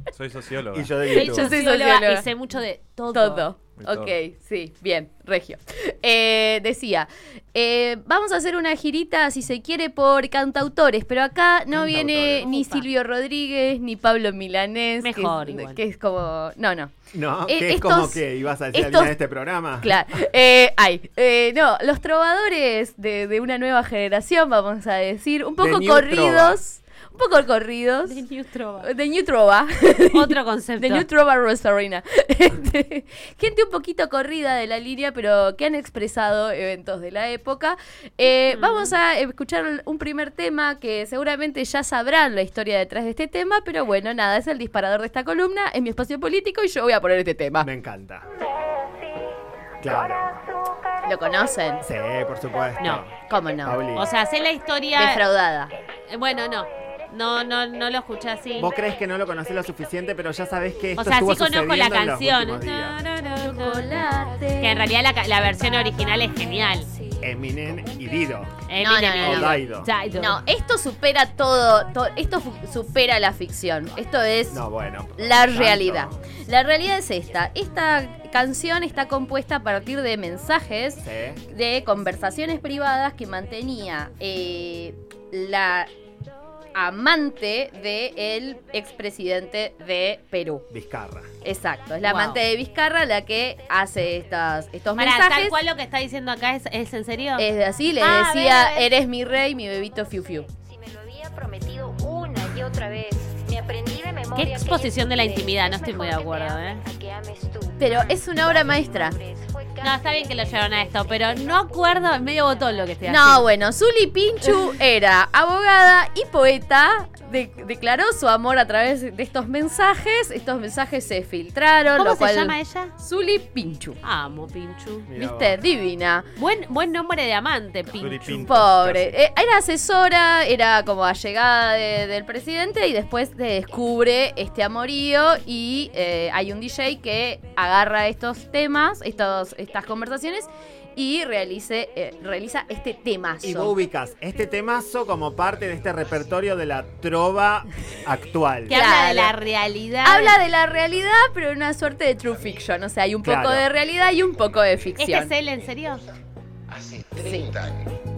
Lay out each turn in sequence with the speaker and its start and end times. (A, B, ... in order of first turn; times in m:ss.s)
0:00.1-0:00.9 A
0:00.7-0:01.5 B
0:01.1-0:02.2 C
0:01.1-0:03.4 D
0:03.1-0:16.9 C
0:03.8-0:04.1 A
0:11.7-0:12.4 B
0:12.4-0:12.9 D
0:15.0-0:15.8 D
0:17.1-0:20.0 B
0:17.5-0:19.1 C
0:19.8-0:28.2 C
0:25.6-0:26.6 B
0:28.0-0:28.9 D
0:28.8-0:47.7 C
0:30.1-0:31.0 D
0:38.5-0:38.9 D
0:47.6-0:48.3 B
0:49.8-0:50.3 B
0:51.0-0:51.8 C
0:51.8-0:54.1 B
0:53.3-0:53.8 C
0:53.9-0:55.2 D
0:54.9-0:55.7 C
0:56.1-0:58.7 D
0:58.6-1:03.0 B
1:01.0-1:03.9 D
1:03.4-1:04.9 C
1:04.6-1:06.9 D
1:07.2-1:08.6 B
1:08.7-1:10.4 D
1:08.8-1:09.6 C
1:09.2-1:09.9 B
1:10.2-1:14.6 C
1:14.5-1:16.2 B
1:15.2-1:25.9 C
1:21.0-1:21.4 B
1:26.8-1:30.6 C
1:30.7-1:31.3 B
1:31.4-1:35.6 C
1:32.0-1:32.4 D
1:35.0-1:37.4 D
1:37.4-1:40.5 C
1:38.0-1:38.9 D
1:40.7-1:44.8 E
1:44.3-1:46.9 D
1:46.8-1:47.8 E
1:47.8-1:49.2 C
1:49.2-1:49.7 E
1:49.8-1:53.4 D
1:53.0-2:04.0 C
2:01.9-2:02.9 D
2:04.0-2:05.1 D
2:05.0-2:05.6 B
2:05.1-2:06.3 C
2:06.4-2:08.4 D
2:07.9-2:09.2 A
2:08.2-2:23.8 C
2:23.4-2:28.8 B
2:28.7-2:30.4 D
2:28.7-2:29.3 C
2:30.0-2:35.3 C
2:33.2-2:33.7 B
2:35.0-2:36.0 D
2:37.2-2:37.6 C